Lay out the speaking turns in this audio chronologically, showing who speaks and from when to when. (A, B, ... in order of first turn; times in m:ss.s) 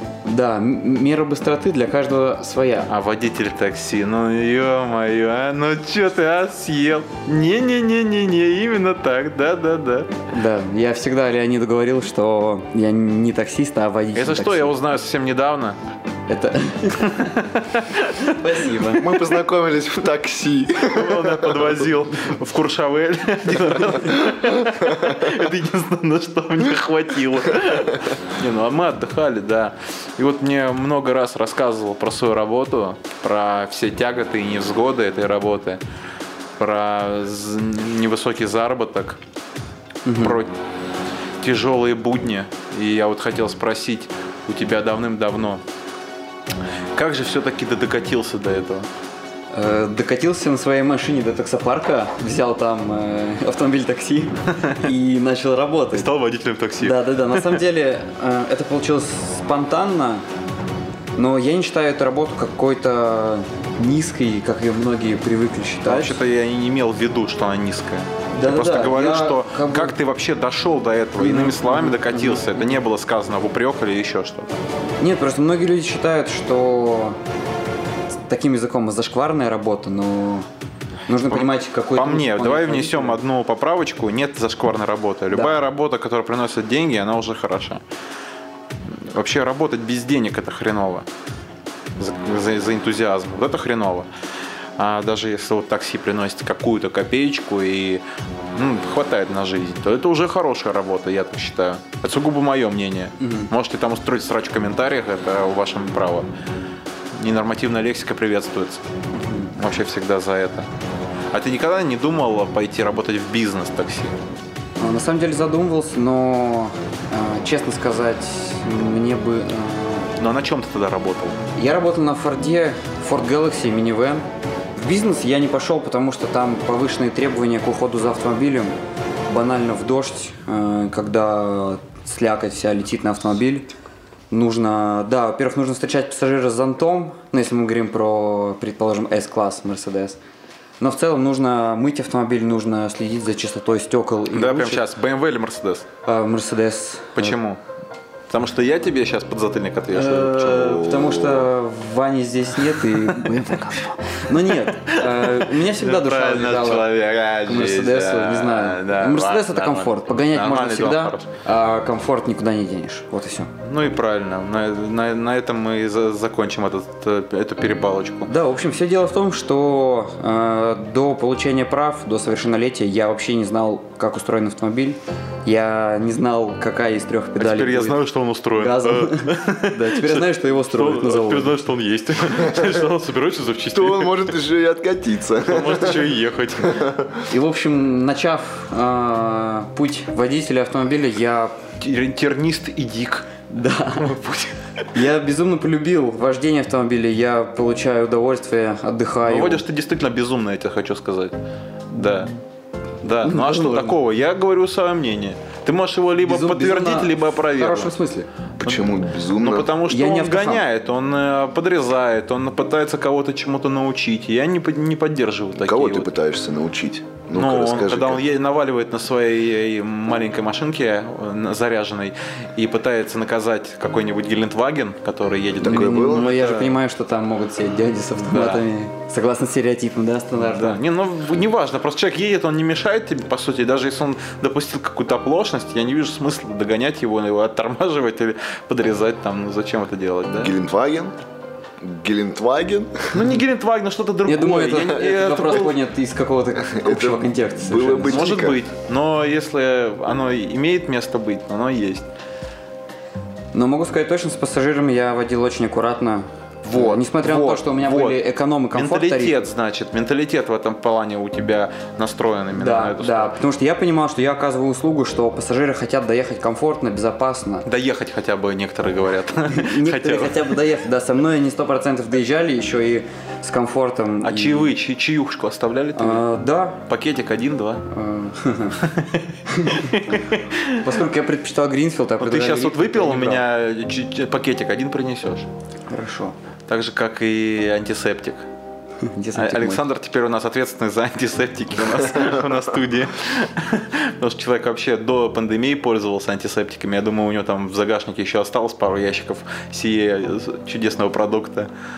0:00.2-0:02.9 A
0:02.9-0:10.2 B
0:10.3-0:14.8 A
0:14.2-0:15.8 B
0:16.3-0:17.4 A
0:17.2-0:18.4 B
0:18.2-0:19.1 A
0:19.0-0:21.8 C
0:20.9-0:35.8 B
0:36.6-0:39.2 B
0:40.0-0:40.4 A
0:40.2-0:40.5 B
0:41.4-0:45.6 B
0:47.0-0:48.9 B
0:49.5-0:56.1 A
0:55.9-0:57.6 B
0:56.8-1:00.2 A
1:01.2-1:06.2 A
1:05.8-1:14.6 B
1:08.3-1:10.0 A
1:11.2-1:12.7 A
1:15.0-1:17.2 A
1:18.3-1:20.5 A
1:21.1-1:23.2 A
1:21.3-1:27.8 B
1:25.3-1:25.6 A
1:28.9-1:31.1 B
1:32.0-1:34.1 B
1:34.8-1:38.0 B
1:38.6-1:46.3 B
1:43.2-1:43.5 A
1:47.1-1:48.8 B
1:49.2-1:49.5 A
1:49.6-1:50.7 B
1:51.3-1:54.2 B
1:54.8-2:00.1 A
2:00.2-2:01.4 B
2:01.6-2:04.2 A
2:04.8-2:08.8 A
2:09.3-2:13.7 A
2:14.3-2:20.2 A
2:20.8-2:24.8 A
2:24.3-2:25.9 B
2:26.1-2:27.4 A
2:27.2-2:27.6 B
2:28.3-2:30.9 B
2:29.9-2:36.9 A
2:30.6-2:31.5 C
2:34.9-2:41.3 B
2:37.4-2:43.5 A
2:43.6-2:48.3 B
2:48.3-2:58.0 A
2:57.4-3:04.3 B
2:58.6-3:01.6 A
3:03.7-3:07.2 C
3:05.4-3:06.9 B
3:07.3-3:11.5 A
3:11.8-3:13.3 B
3:13.5-3:14.2 A
3:14.0-3:14.6 B
3:14.9-3:19.6 A
3:19.2-3:21.4 B
3:21.9-3:22.3 B
3:23.0-3:28.0 B
3:23.2-3:24.0 A
3:26.2-3:28.3 A
3:28.6-3:29.7 C
3:28.6-3:36.1 B
3:29.9-3:30.6 A
3:35.6-3:38.2 C
3:37.3-3:46.8 B
3:45.6-3:46.4 C
3:45.6-3:50.8 A
3:48.3-3:48.6 B
3:50.4-4:00.5 B
4:00.4-4:01.1 C
4:01.8-4:03.2 C
4:03.1-4:05.8 B
4:04.3-4:08.3 A
4:06.8-4:08.6 C
4:08.1-4:12.1 B
4:13.5-4:19.4 A
4:16.6-4:18.2 B
4:18.7-4:23.4 B
4:22.5-4:27.7 A
4:27.6-4:30.5 B
4:29.5-4:34.7 A
4:34.2-4:36.2 B
4:36.0-4:36.8 A
4:36.9-4:37.8 B
4:37.9-4:38.9 A
4:38.8-4:40.9 B
4:39.5-4:40.2 A
4:40.8-4:43.4 A
4:42.2-4:45.5 B
4:45.9-4:46.4 A
4:46.7-4:48.5 B
4:49.0-4:49.8 A
4:49.4-5:01.7 B